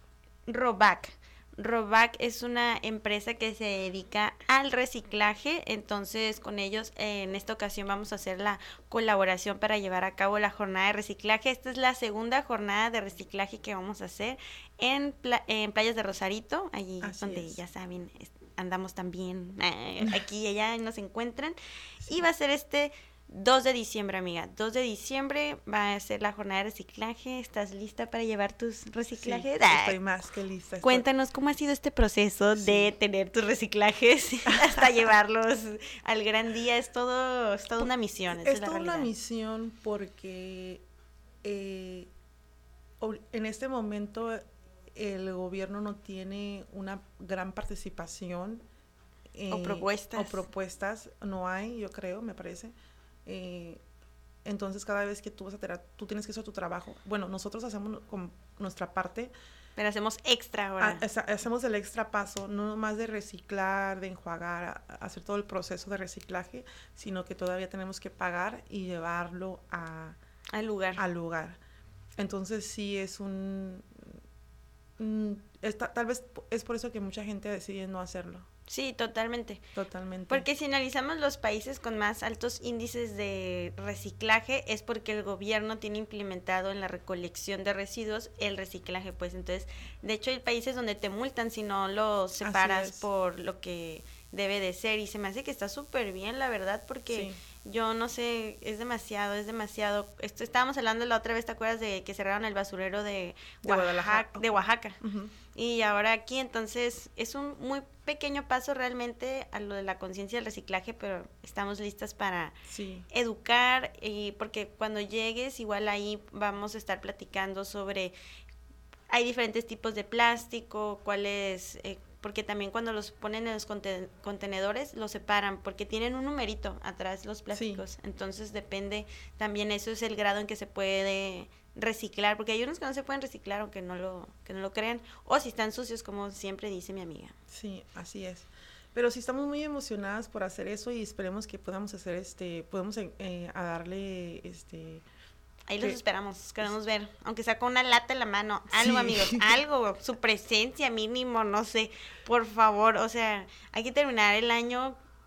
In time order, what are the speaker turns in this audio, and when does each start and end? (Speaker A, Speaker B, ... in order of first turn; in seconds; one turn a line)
Speaker A: 0.5-30.0
Speaker B: 17.0-17.6
Speaker B: 29.2-31.1
Speaker A: 30.8-39.1
Speaker B: 32.5-32.9
Speaker B: 34.5-34.9
Speaker B: 37.8-40.8
Speaker B: 41.4-42.1
Speaker B: 43.0-44.4
Speaker B: 44.9-48.6
Speaker B: 49.3-52.7
Speaker A: 49.5-50.4
Speaker B: 53.2-53.8
Speaker B: 54.4-59.3
Speaker A: 59.8-61.0
Speaker B: 60.8-70.2
Speaker A: 70.5-71.0
Speaker B: 71.0-71.6
Speaker B: 72.2-74.1
Speaker B: 75.0-78.5
Speaker A: 78.7-79.6
Speaker B: 79.7-80.5
Speaker A: 80.3-105.0
Speaker B: 92.4-93.1
Speaker B: 97.1-97.4
Speaker B: 103.6-105.3
Speaker A: 105.5-112.5
Speaker B: 112.7-113.1
Speaker A: 113.1-118.1
Speaker A: 119.1-137.3
Speaker B: 127.5-127.8
Speaker B: 137.5-145.0
Speaker A: 145.7-155.0
Speaker B: 148.7-149.6